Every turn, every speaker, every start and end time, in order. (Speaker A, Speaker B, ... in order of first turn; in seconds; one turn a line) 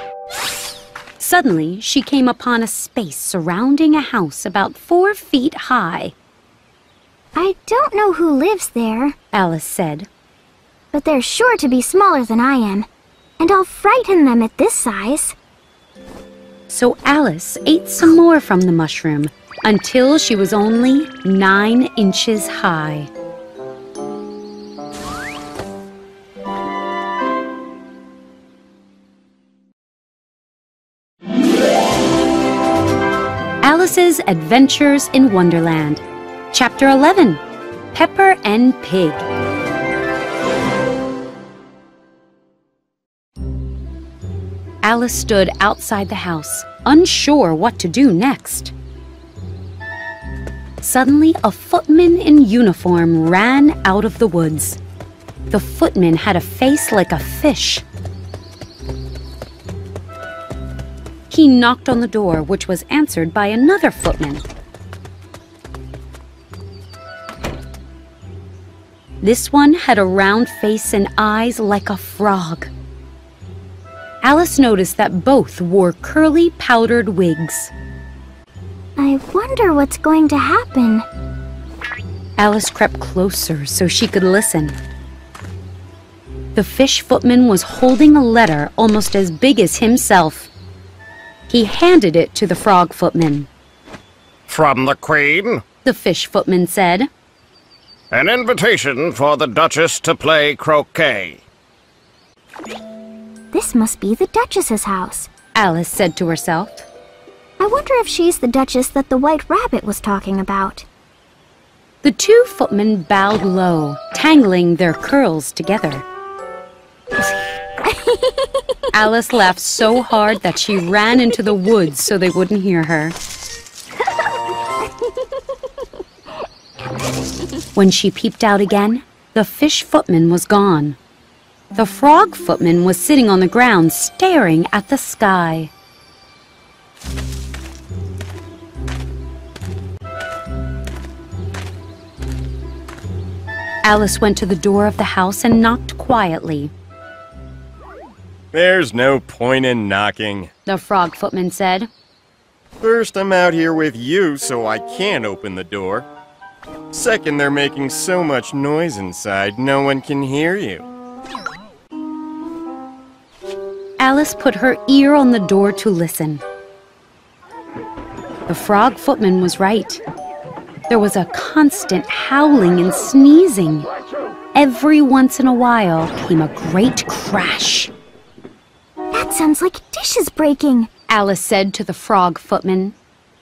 Speaker A: 1.2-6.1
Speaker B: 7.3-9.2
Speaker A: 9.3-10.1
Speaker B: 10.9-12.9
Speaker B: 13.4-15.3
Speaker A: 16.7-23.1
Speaker A: 33.6-37.4
Speaker A: 37.9-39.2
Speaker A: 44.8-48.7
Speaker A: 50.8-54.8
Speaker A: 55.5-57.8
Speaker A: 61.3-64.5
Speaker A: 69.2-72.7
Speaker A: 74.2-77.7
Speaker B: 79.0-81.0
Speaker A: 82.4-84.8
Speaker A: 86.5-90.5
Speaker A: 91.5-93.5
Speaker C: 94.5-95.6
Speaker A: 95.8-97.1
Speaker C: 98.1-101.4
Speaker B: 103.5-105.3
Speaker A: 105.6-106.9
Speaker B: 107.6-110.9
Speaker A: 112.0-116.0
Speaker B: 117.8-118.6
Speaker A: 118.9-123.2
Speaker A: 127.7-131.0
Speaker A: 131.8-135.7
Speaker A: 143.8-146.7
Speaker D: 148.5-150.5
Speaker A: 150.7-151.9
Speaker D: 152.8-156.1
Speaker D: 156.9-160.9
Speaker A: 164.0-166.4
Speaker A: 168.5-170.0
Speaker A: 170.9-173.9
Speaker A: 174.6-177.9
Speaker B: 179.1-180.9
Speaker A: 181.1-182.9